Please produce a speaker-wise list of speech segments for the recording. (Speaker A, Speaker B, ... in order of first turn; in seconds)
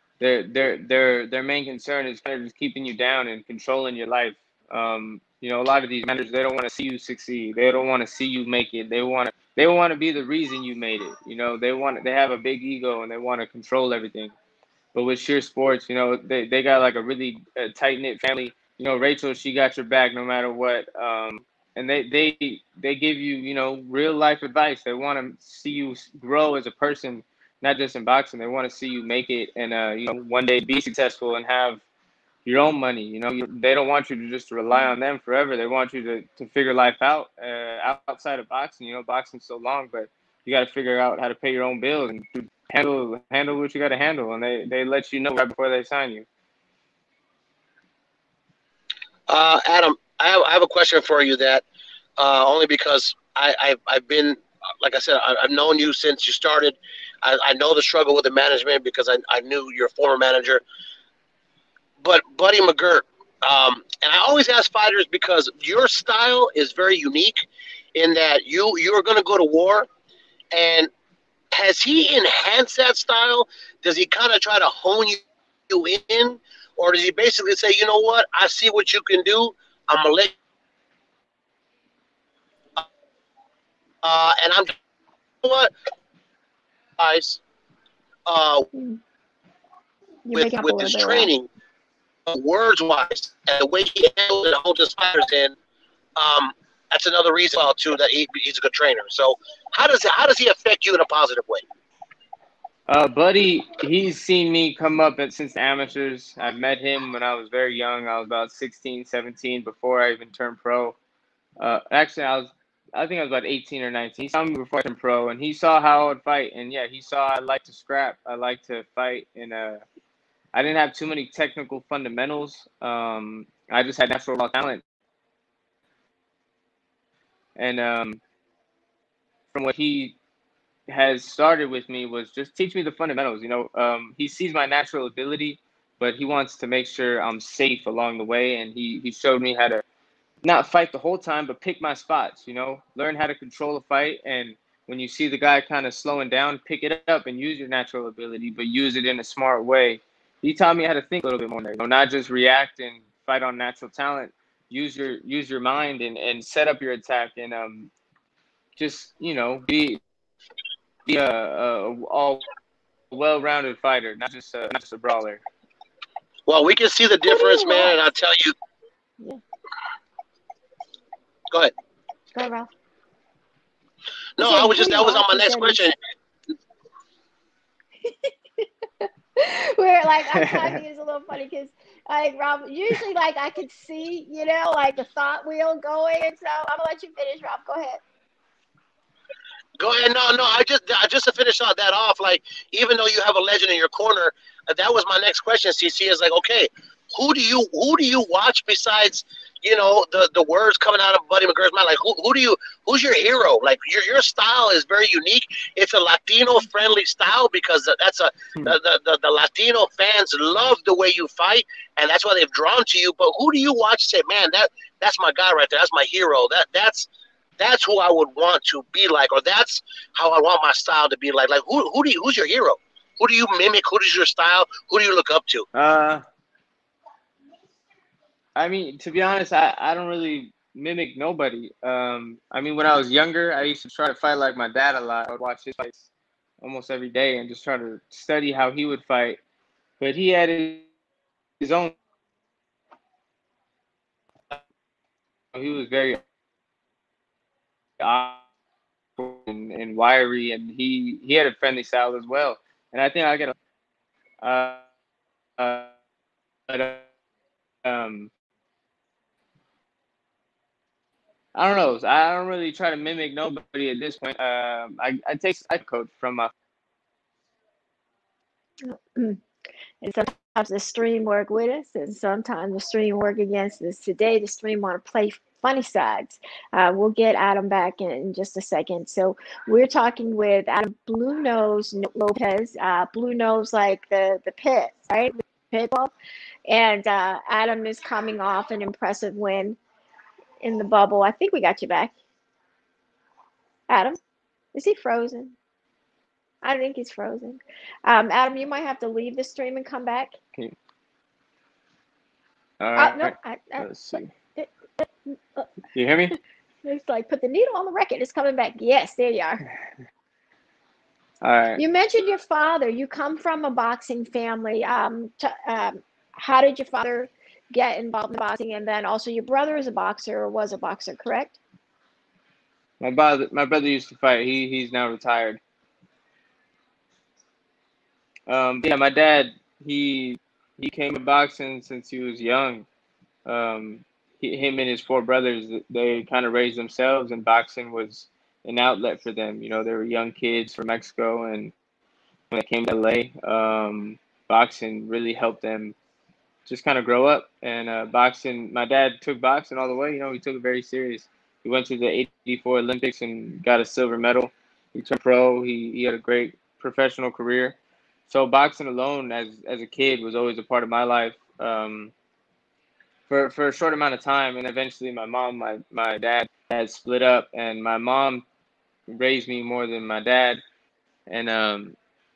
Speaker A: 0.2-14.3, 14.9-31.8, 32.4-46.2, 102.9-111.0, 111.6-119.8, 120.5-124.8, 127.5-128.2, 129.5-130.2, 130.9-139.8, 140.4-157.9, 158.8-160.0, 161.1-162.4, 163.1-165.4, 225.7-226.2, 228.6-236.1, 236.6-239.4, 240.0-240.8, 241.6-241.9, 245.5-246.2, 248.0-248.4, 249.2-253.5, 254.4-254.8, 255.6-255.9, 256.7-257.0, 257.8-258.3, 261.5-266.5, 302.8-304.3, 305.9-306.3, 311.4-311.8, 323.0-325.6, 328.5-332.9, 333.4-341.7, 342.5-345.9, 346.7-357.8, 358.3-362.1, 363.3-368.4, 369.1-370.6, 371.3-371.9
Speaker B: 49.3-51.6, 52.2-60.6, 62.0-67.4, 67.9-69.9, 70.5-70.9, 71.5-80.3, 84.0-84.7, 85.4-85.7, 87.0-87.4, 88.2-88.7, 90.3-91.5, 92.3-95.6, 96.2-101.6, 166.5-168.5, 174.4-175.9, 189.8-217.1, 217.6-225.7
Speaker C: 88.7-89.0, 90.2-91.3, 167.2-168.0, 172.3-172.7, 174.4-175.9, 178.0-188.0, 268.8-269.4, 270.0-286.1, 286.7-289.8, 290.6-292.1, 293.9-294.2, 294.7-295.6, 296.6-300.4, 303.0-305.7, 306.8-309.6, 311.8-321.6